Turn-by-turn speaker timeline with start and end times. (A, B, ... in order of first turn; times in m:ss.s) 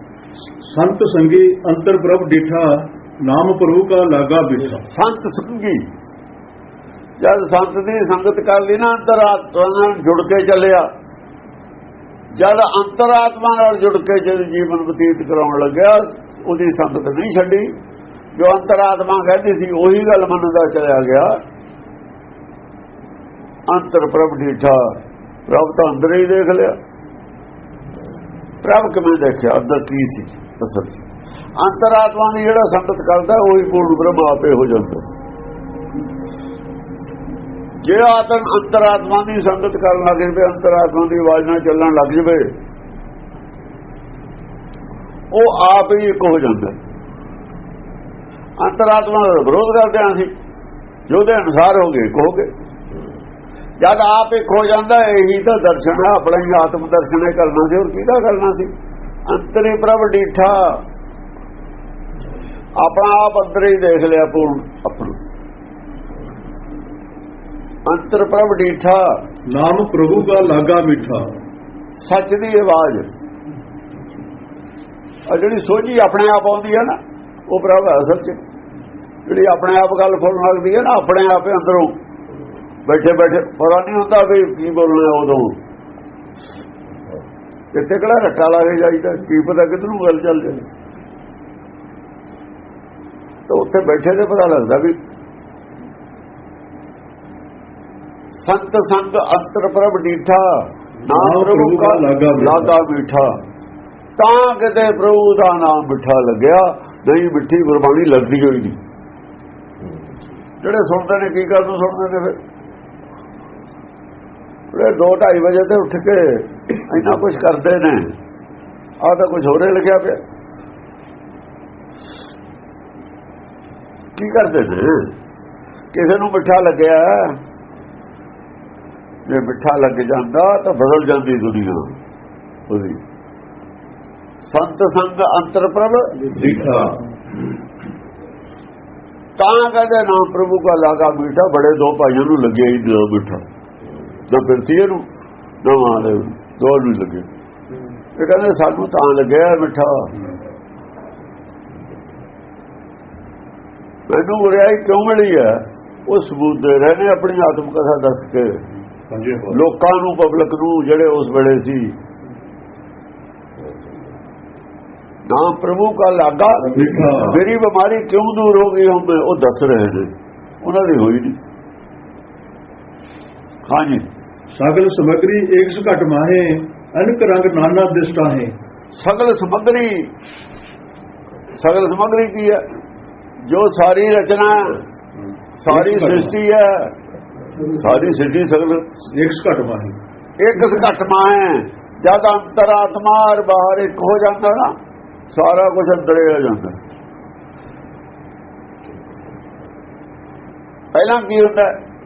0:00.6-0:04.8 A
0:04.9-0:05.8 B
0:07.2-0:10.8 B
0:12.4-0:17.7 B
0:18.4-0:21.3 B
0:23.7-0:25.0 B
0:25.5-0:26.7 B
0:28.6-0:31.0 B
0:31.6-0:35.1 B
0:37.8-0:42.5 B
0:45.3-0:46.8 B
0:48.6-0:50.3 B
0:51.1-0:52.5 B
0:53.8-0:58.7 B
0:59.3-1:00.8 B
1:02.8-1:05.2 B
1:07.8-1:09.2 B
1:09.5-1:11.3 A
1:12.0-1:13.1 B
1:15.3-1:17.0 B
1:17.5-1:18.4 B
1:19.2-1:21.9 B
1:22.8-1:25.6 B
1:27.7-1:30.6 B
1:33.5-1:35.0 B
1:38.4-1:43.3 B
1:41.1-1:42.7 A
1:44.2-1:48.8 B
1:50.6-1:52.4 B
1:54.7-1:58.1 B
1:59.0-2:00.2 B
2:04.1-2:05.1 B
2:05.9-2:07.4 B
2:09.3-2:11.9 B
2:12.7-2:13.0 B
2:14.5-2:16.3 B
2:16.3-2:17.0 A
2:19.4-2:23.4 B
2:24.3-2:25.0 B
2:25.6-2:27.3 B
2:28.2-2:30.1 B
2:34.1-2:38.6 B
2:39.1-2:39.6 A
2:39.5-2:41.9 B
2:45.3-2:50.1 B
2:46.7-2:47.4 A
2:50.6-2:51.4 B
2:53.7-2:54.0 B
2:54.5-2:58.5 A
2:59.0-3:00.1 B
3:01.6-3:02.6 B
3:03.5-3:04.8 B
3:05.6-3:06.9 B
3:05.6-3:06.3 A
3:07.6-3:08.8 B
3:09.1-3:10.0 A
3:10.4-3:14.7 B
3:15.3-3:16.8 B
3:20.9-3:21.7 B